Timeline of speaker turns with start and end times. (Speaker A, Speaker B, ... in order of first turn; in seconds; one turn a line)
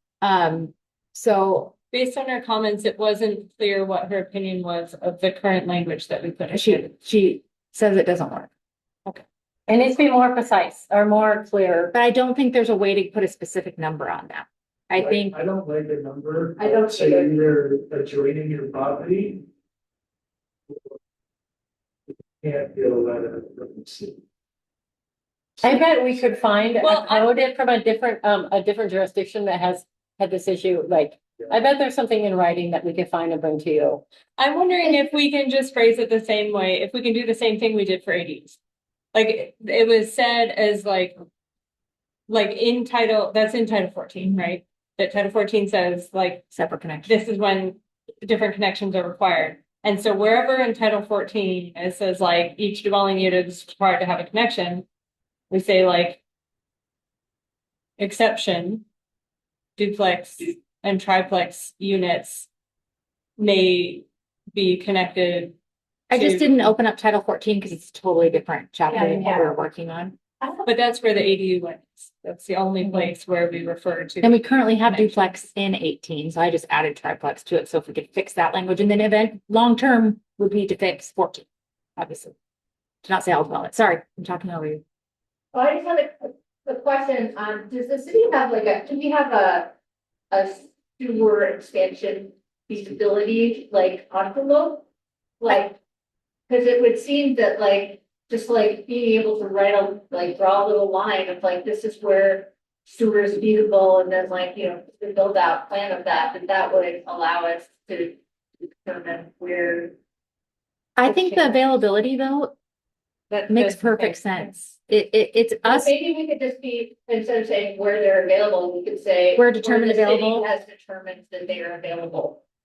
Speaker A: 0.2-1.7
Speaker B: 1.9-6.9
Speaker A: 6.5-8.5
Speaker C: 9.7-11.9
Speaker A: 11.9-15.4
Speaker D: 15.0-19.4
Speaker E: 16.6-17.3
Speaker D: 22.4-24.2
Speaker C: 25.6-34.0
Speaker B: 26.8-27.4
Speaker B: 34.4-38.6
Speaker B: 39.1-41.2
Speaker B: 42.3-46.5
Speaker A: 46.5-47.1
Speaker B: 47.0-54.9
Speaker B: 55.5-56.2
Speaker B: 58.0-58.8
Speaker B: 59.8-62.5
Speaker B: 63.4-65.6
Speaker B: 66.1-66.7
Speaker A: 66.1-70.2
Speaker E: 68.9-69.5
Speaker E: 70.4-70.7
Speaker B: 70.6-75.1
Speaker A: 72.8-73.1
Speaker A: 74.2-81.5
Speaker A: 82.0-82.3
Speaker A: 83.0-84.8
Speaker E: 85.5-89.7
Speaker E: 90.3-94.8
Speaker E: 95.4-95.8
Speaker E: 96.5-109.9
Speaker A: 111.0-112.5
Speaker E: 111.1-111.5
Speaker B: 113.3-114.5
Speaker A: 113.5-115.9
Speaker E: 115.6-122.4
Speaker A: 119.3-120.5